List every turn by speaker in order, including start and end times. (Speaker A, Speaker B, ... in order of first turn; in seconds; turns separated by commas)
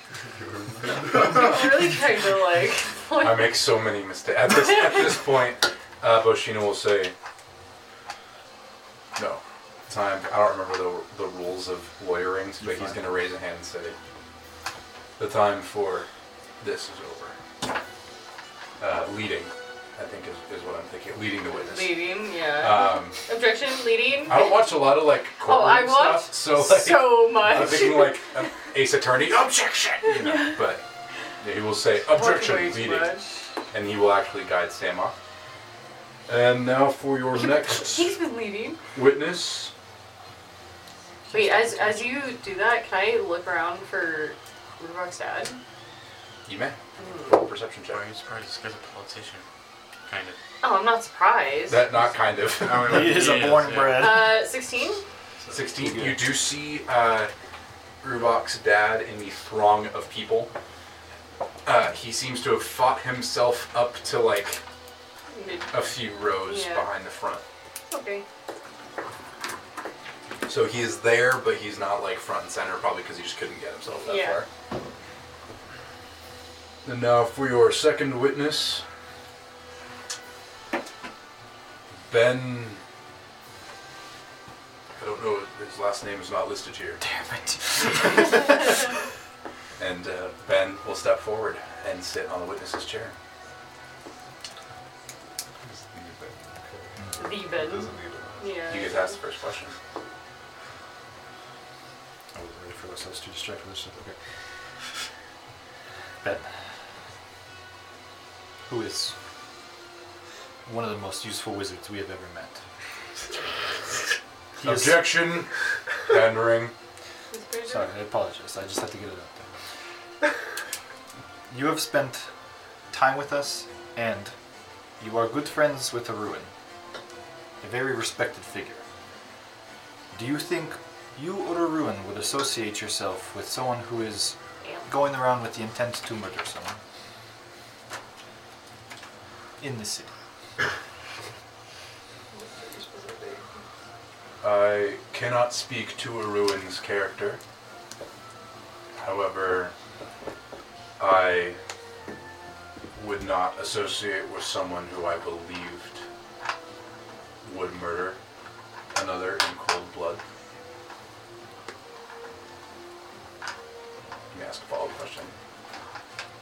Speaker A: 0.3-1.5, Speaker B: 1.1-3.7, Speaker C: 3.2-7.1, Speaker C: 9.2-13.9, Speaker D: 12.6-13.0, Speaker C: 15.2-16.1, Speaker C: 16.6-17.4, Speaker C: 18.8-23.2, Speaker B: 21.6-28.3, Speaker C: 24.2-30.8, Speaker C: 31.4-33.1, Speaker B: 32.1-33.5, Speaker C: 33.7-35.1, Speaker C: 36.3-38.2, Speaker B: 37.3-38.8, Speaker C: 38.9-39.7, Speaker B: 41.3-45.6, Speaker C: 46.4-48.0, Speaker B: 47.0-47.4, Speaker E: 47.9-49.4, Speaker E: 50.1-50.4, Speaker B: 50.6-51.9, Speaker C: 51.7-53.4, Speaker E: 52.5-54.1, Speaker D: 52.8-54.4, Speaker B: 53.9-55.0, Speaker C: 55.5-57.3, Speaker D: 55.7-56.2, Speaker C: 58.0-60.5, Speaker C: 61.6-64.6, Speaker B: 65.3-65.8, Speaker C: 65.7-67.4, Speaker B: 66.3-66.9, Speaker B: 67.9-68.2, Speaker C: 70.5-74.5, Speaker B: 74.0-74.4, Speaker C: 76.8-78.8, Speaker C: 82.1-82.8, Speaker C: 84.9-87.0, Speaker D: 87.0-88.8, Speaker C: 89.8-93.1, Speaker A: 95.6-98.7, Speaker B: 97.2-99.2, Speaker C: 98.7-99.8, Speaker D: 102.3-104.2, Speaker D: 106.2-106.7, Speaker D: 108.7-109.1, Speaker D: 110.6-112.6, Speaker D: 114.6-115.1, Speaker C: 114.6-115.5, Speaker C: 116.1-116.7, Speaker B: 117.3-117.9, Speaker D: 117.6-119.3, Speaker D: 121.5-122.3, Speaker D: 122.9-124.3, Speaker D: 125.0-126.5, Speaker D: 127.6-128.8, Speaker D: 130.1-136.8, Speaker D: 139.6-140.1, Speaker B: 142.3-143.6, Speaker C: 144.4-147.4, Speaker C: 149.0-149.7, Speaker C: 151.0-151.6, Speaker C: 152.9-156.0, Speaker C: 157.4-158.2, Speaker C: 158.9-160.2, Speaker C: 164.3-165.3